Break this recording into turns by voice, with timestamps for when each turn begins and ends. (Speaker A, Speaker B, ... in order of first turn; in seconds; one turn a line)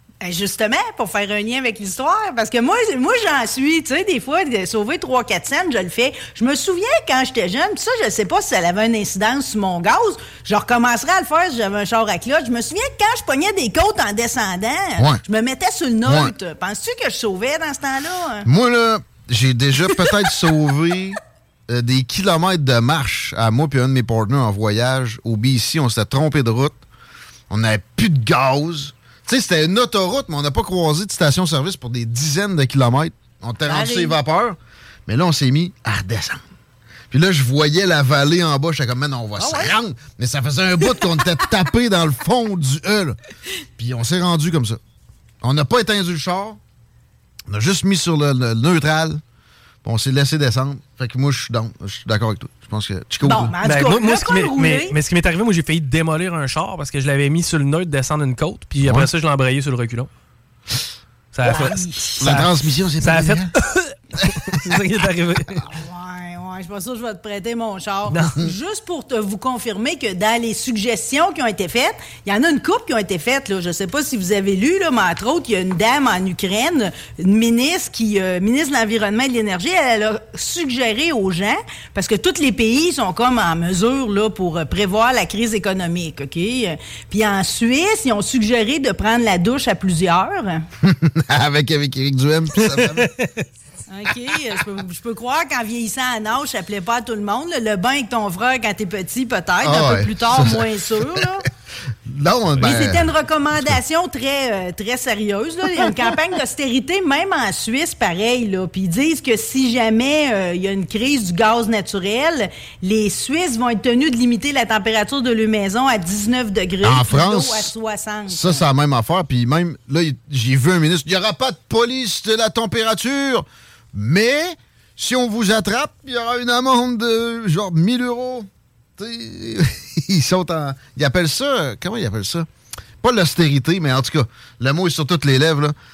Speaker A: 0.2-18.4
Speaker B: 15.0-15.2
Speaker B: 16.0-16.3
Speaker B: 18.4-26.8
Speaker B: 27.5-36.4
Speaker A: 33.6-34.1
Speaker B: 37.1-43.2
Speaker A: 39.4-39.7
Speaker B: 43.8-44.8
Speaker B: 45.4-46.6
Speaker B: 47.5-49.2
Speaker B: 49.8-53.5
Speaker A: 53.2-54.9
Speaker C: 53.6-60.1
Speaker B: 58.8-59.1
Speaker C: 61.3-65.6
Speaker A: 61.4-62.1
Speaker B: 62.2-63.5
Speaker A: 65.6-90.6
Speaker C: 68.1-68.4
Speaker B: 90.8-93.1
Speaker C: 92.6-93.4
Speaker A: 93.9-101.5
Speaker B: 99.6-100.7
Speaker B: 102.0-103.1
Speaker A: 102.6-118.6
Speaker B: 116.8-117.7
Speaker B: 118.3-132.5
Speaker B: 133.0-135.7